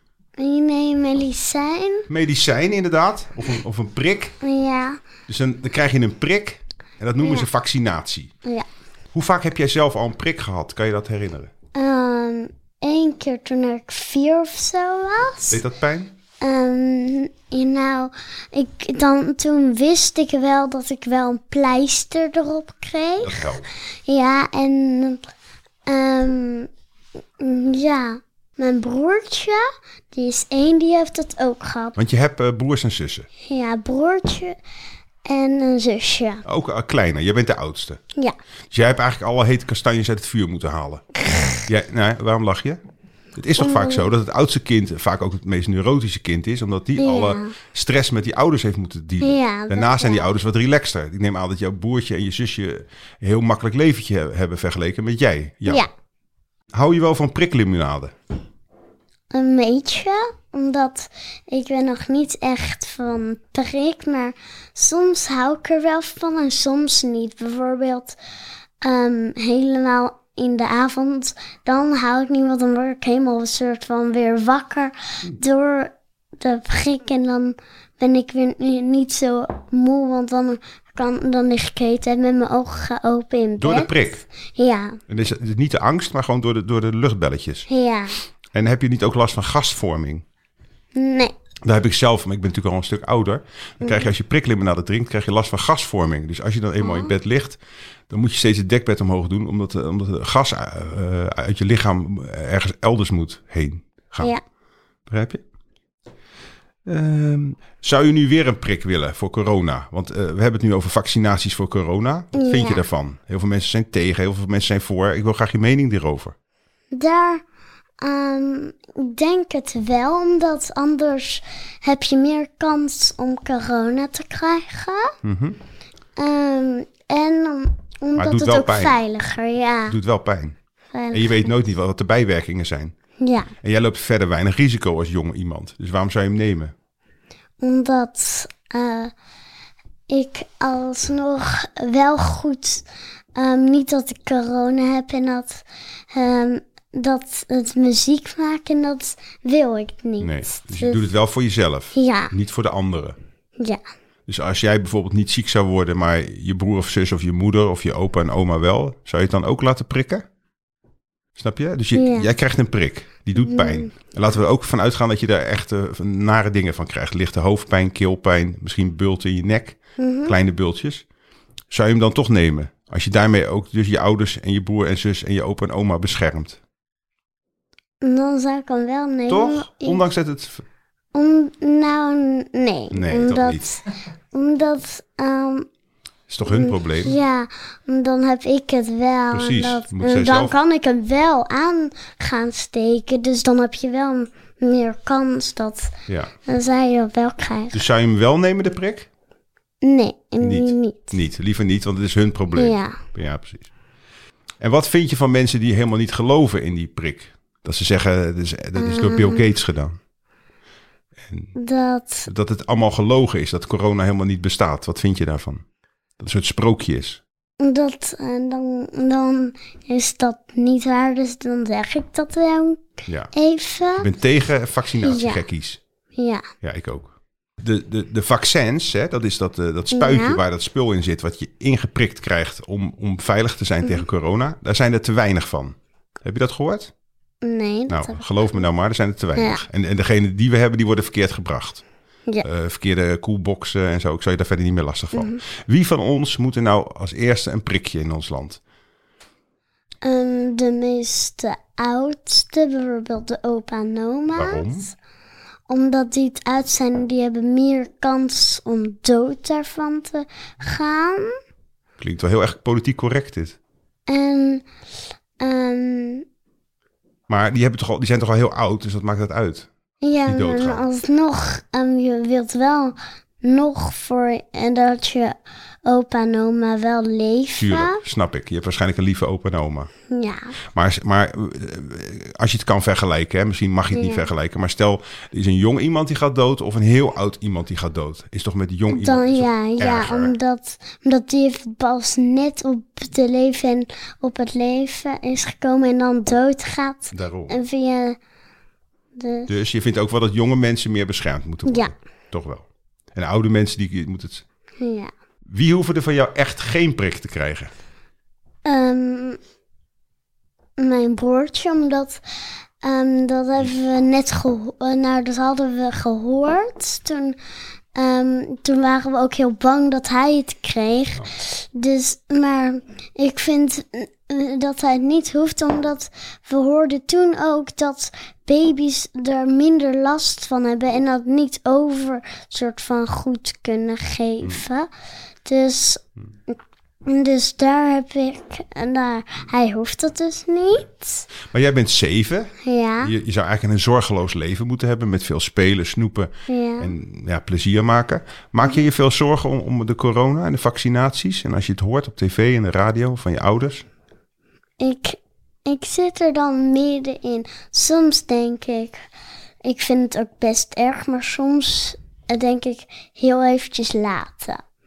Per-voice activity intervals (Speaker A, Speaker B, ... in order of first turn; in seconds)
Speaker A: 0.4-2.1, 4.4-5.0, 7.2-7.5, 11.8-15.6, 16.4-23.5, 24.1-25.2, 25.9-26.7, 27.4-32.0, 33.5-34.6, 35.3-36.4, 41.2-41.6, 43.6-44.1, 47.0-47.5, 49.2-50.3, 59.3-68.2, 68.8-84.0, 84.5-85.0, 87.7-88.2, 91.0-91.3, 93.8-94.1, 96.8-97.1, 112.3-112.8, 116.9-117.4, 118.0-125.1, 126.2-130.0, 130.9-131.5, 133.2-133.5, 137.6-139.1, 140.1-151.1, 151.9-152.3, 161.9-162.3, 163.4-163.9, 170.0-170.3, 178.0-180.0, 181.1-185.7, 186.5-195.9, 196.5-197.8, 199.8-201.2, 202.6-203.0, 208.8-209.5, 211.6-212.3, 217.6-224.1, 225.0-225.4, 226.2-226.5, 229.9-230.4, 237.4-238.6, 239.3-239.6, 245.1-245.4, 250.0-254.8, 255.7-261.4, 264.1-264.6, 265.4-266.2, 270.0-278.0, 280.1-280.5, 283.9-284.3, 288.9-298.2, 299.2-299.5, 301.7-301.9, 304.8-305.1, 308.6-309.4, 310.8-312.2, 312.8-317.4, 317.9-334.9, 335.4-341.3, 342.6-343.1, 346.5-346.9, 354.8-359.1, 359.6-364.6
Speaker B: 2.1-4.4, 5.3-8.3, 9.1-11.5, 15.5-16.1, 23.2-23.7, 32.0-33.3, 36.5-38.0, 38.7-41.0, 41.7-42.8, 43.4-55.9, 56.7-58.1, 83.6-84.2, 85.1-87.7, 88.5-90.2, 91.6-97.6, 98.1-104.3, 105.1-105.4, 106.9-116.3, 125.2-125.6, 128.2-129.0, 129.9-130.6, 131.1-132.9, 133.6-136.7, 150.2-153.2, 154.3-160.2, 161.4-171.1, 171.7-176.6, 179.3-180.6, 182.9-183.7, 186.3-187.2, 189.3-190.6, 197.7-199.1, 200.4-203.7, 204.6-210.0, 211.3-211.5, 212.3-215.6, 216.2-217.2, 224.0-225.8, 226.6-236.9, 237.9-241.8, 242.4-248.6, 254.3-254.9, 262.0-263.6, 267.3-269.7, 270.3-270.9, 277.6-279.9, 280.8-290.3, 297.1-297.6, 299.5-304.4, 305.5-307.7, 341.5-353.9